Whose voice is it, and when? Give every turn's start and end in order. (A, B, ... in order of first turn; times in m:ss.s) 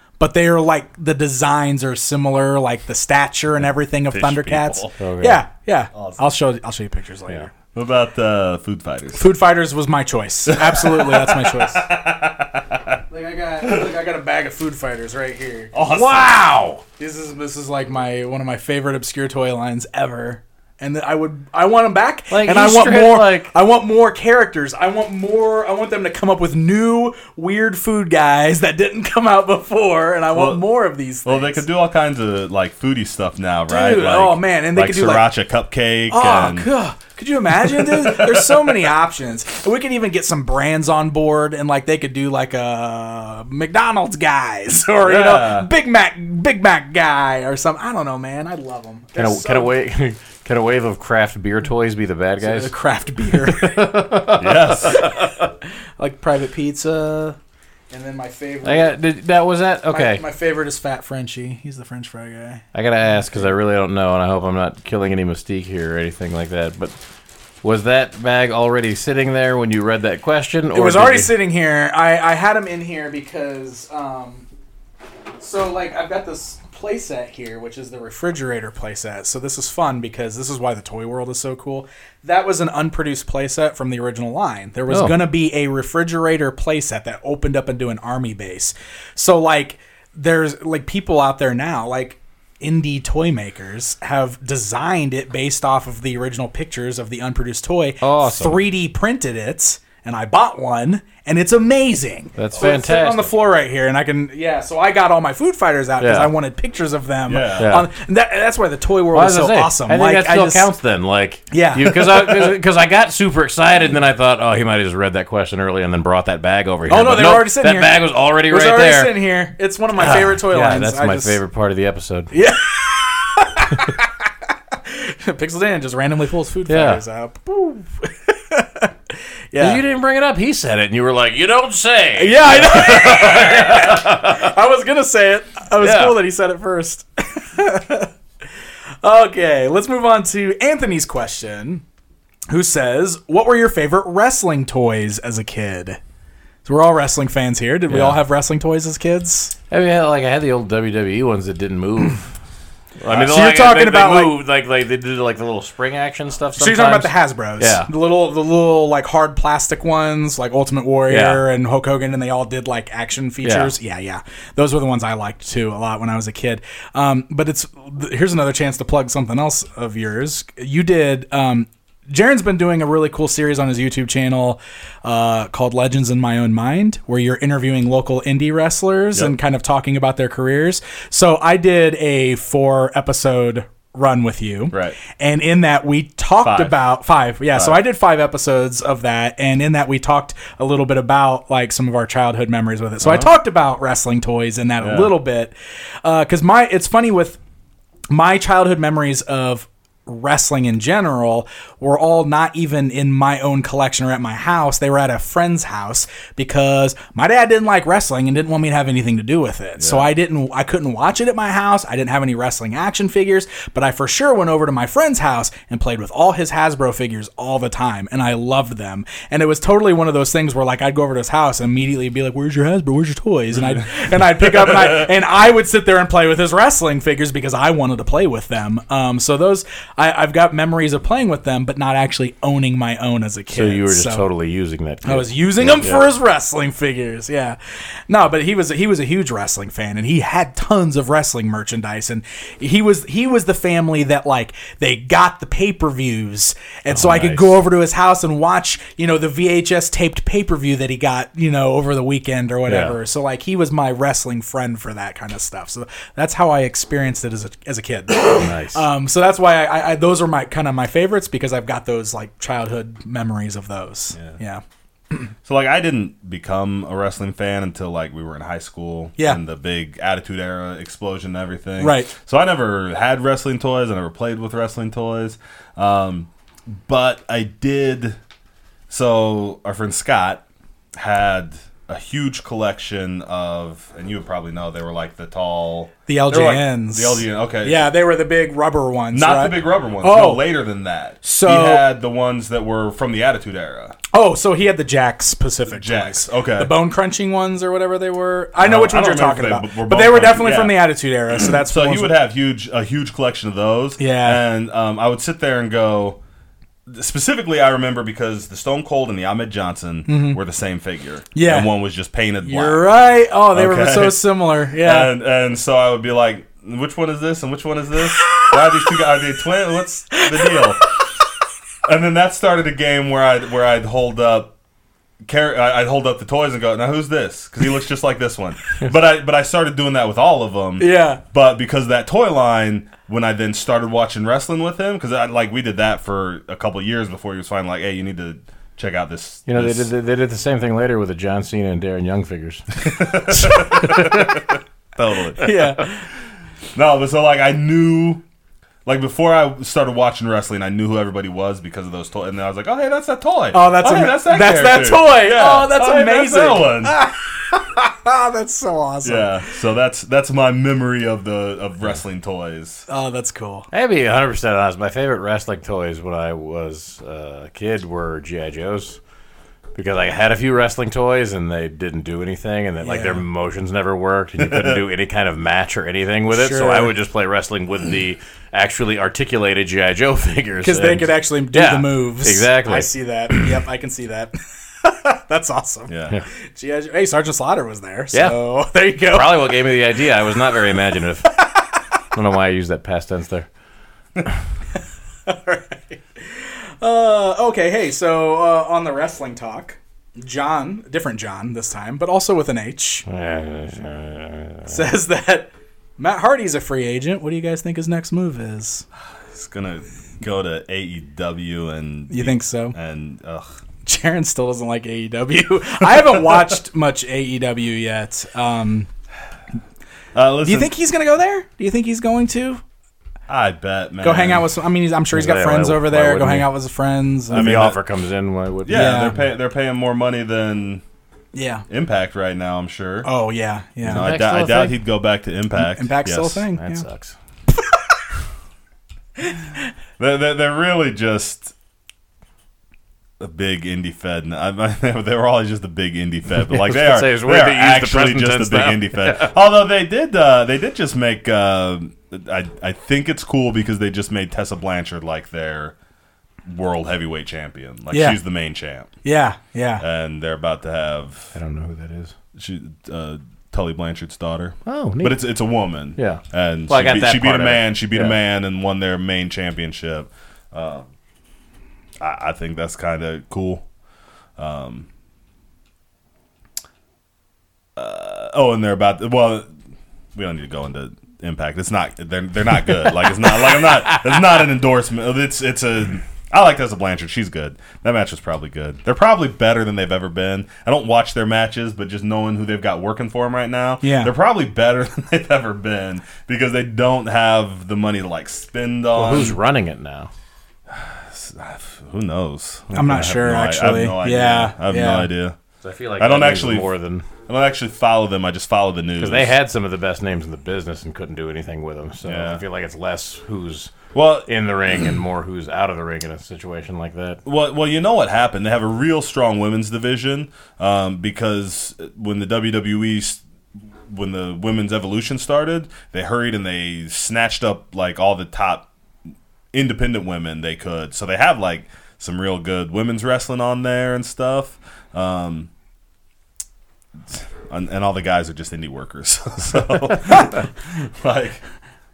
0:00.2-0:07.5 A
0:04.1-0:05.0 B
0:05.0-0:05.4 C
0:05.9-0:06.3 B
0:07.7-0:09.3 B
0:09.2-0:11.9 A
0:10.5-0:13.0 B
0:13.1-0:15.7 A
0:13.6-0:13.9 B
0:15.7-0:16.4 B
0:15.9-0:16.8 C
0:17.0-0:31.6 A
0:22.3-0:23.5 C
0:30.3-0:30.6 B
0:31.2-0:36.7 B
0:33.7-0:35.3 A
0:36.1-0:49.7 A
0:37.6-0:38.9 B
0:45.0-0:45.7 B
0:49.2-0:55.4 C
0:52.4-0:54.2 A
0:54.4-0:55.0 B
0:54.8-0:57.4 A
0:57.9-0:58.9 A
0:58.6-1:00.2 C
0:59.9-1:03.5 A
1:02.7-1:06.9 C
1:07.6-1:11.3 C
1:10.7-1:14.5 A
1:15.4-1:50.7 A
1:24.9-1:25.1 C
1:38.0-1:38.6 C
1:42.4-1:43.3 C
1:46.0-1:46.3 C
1:47.3-1:47.8 B
1:47.6-1:47.9 C
1:49.1-1:59.2 C
1:51.5-1:52.5 A
1:56.9-2:01.4 A
2:00.0-2:02.3 C
2:02.3-2:04.1 A
2:04.7-2:09.8 A
2:06.7-2:07.0 C
2:09.6-2:14.5 C
2:12.2-2:18.1 A
2:15.8-2:16.2 C
2:19.0-2:21.8 A
2:22.5-2:26.0 A
2:26.6-2:29.5 A
2:27.9-2:28.2 C
2:29.7-2:32.3 C
2:33.0-2:37.9 C
2:33.1-2:34.4 A
2:36.6-3:17.4 A
2:41.1-2:41.4 C
2:43.4-2:43.7 C
3:04.7-3:05.0 B
3:06.4-3:06.8 B
3:07.6-3:07.8 B
3:14.8-3:15.1 B
3:18.1-3:54.2 A
3:29.8-3:30.1 B
3:44.4-3:45.1 B
3:53.5-3:56.1 C
3:55.0-3:57.6 A
3:58.1-4:25.3 A
4:06.9-4:07.5 C
4:12.7-4:12.9 C
4:18.4-4:18.8 C
4:25.4-4:38.2 B
4:31.8-4:32.1 A
4:38.9-4:40.4 B
4:40.9-4:47.9 B
4:46.1-4:50.4 A
4:49.1-4:54.0 B
4:51.2-4:51.8 A
4:54.1-5:02.1 A
4:55.7-4:56.7 B
4:58.6-5:06.2 B
5:04.0-5:04.4 A
5:06.9-5:12.8 B
5:10.1-5:10.4 A
5:11.3-5:11.7 A
5:12.4-5:15.1 A
5:13.5-5:20.8 B
5:21.8-5:24.5 B
5:25.2-5:39.9 B
5:30.8-5:31.2 A
5:39.5-5:44.4 C
5:42.8-5:45.6 B
5:45.4-5:46.1 A
5:46.7-5:48.2 B
5:48.8-5:56.9 B
5:53.5-5:59.3 A
5:59.0-6:02.8 B
6:02.9-6:03.7 A
6:03.7-6:09.0 C
6:09.7-6:23.4 C
6:12.8-6:13.2 A
6:14.4-6:14.8 B
6:16.3-6:16.9 A
6:20.6-6:29.7 A
6:25.9-6:26.2 B
6:28.1-6:28.4 C
6:29.0-6:31.4 C
6:32.1-6:33.5 C
6:35.3-6:43.1 A
6:43.1-6:44.8 C
6:44.7-6:48.8 A
6:49.3-6:53.5 B
6:52.1-6:52.8 A
6:53.8-6:58.9 A
6:56.0-6:56.4 B
7:00.1-7:00.7 B
7:00.4-7:02.6 A
7:03.3-7:04.4 B
7:04.0-7:07.7 A
7:05.1-7:06.5 C
7:07.3-7:09.0 C
7:07.3-7:07.8 B
7:08.6-7:10.8 B
7:08.7-7:09.1 A
7:11.3-7:11.6 A
7:11.7-7:13.1 B
7:13.0-7:14.1 A
7:13.8-7:14.8 C
7:13.8-7:16.4 B
7:15.5-7:16.8 A
7:16.6-7:17.2 C
7:20.0-7:21.5 B
7:23.2-7:35.7 B
7:26.5-7:29.4 C
7:36.4-7:38.9 B
7:37.9-7:38.2 A
7:39.0-7:39.8 A
7:39.8-7:41.4 B
7:41.4-7:42.1 C
7:42.3-7:50.9 B
7:44.6-7:45.2 C
7:46.0-7:48.2 C
7:52.0-7:53.6 B
7:54.4-7:54.9 B
7:57.8-7:59.5 B
8:00.1-8:19.4 B
8:02.6-8:04.4 C
8:13.8-8:14.1 A
8:18.9-8:20.1 C
8:20.7-8:25.4 B
8:22.7-8:25.1 A
8:25.6-8:27.1 C
8:26.0-8:26.7 B
8:27.3-8:29.3 B
8:29.0-8:37.2 C
8:32.0-8:32.4 B
8:33.9-8:34.3 B
8:37.2-8:43.2 B
8:43.9-8:48.7 B
8:49.5-8:55.5 B
8:57.1-9:01.4 B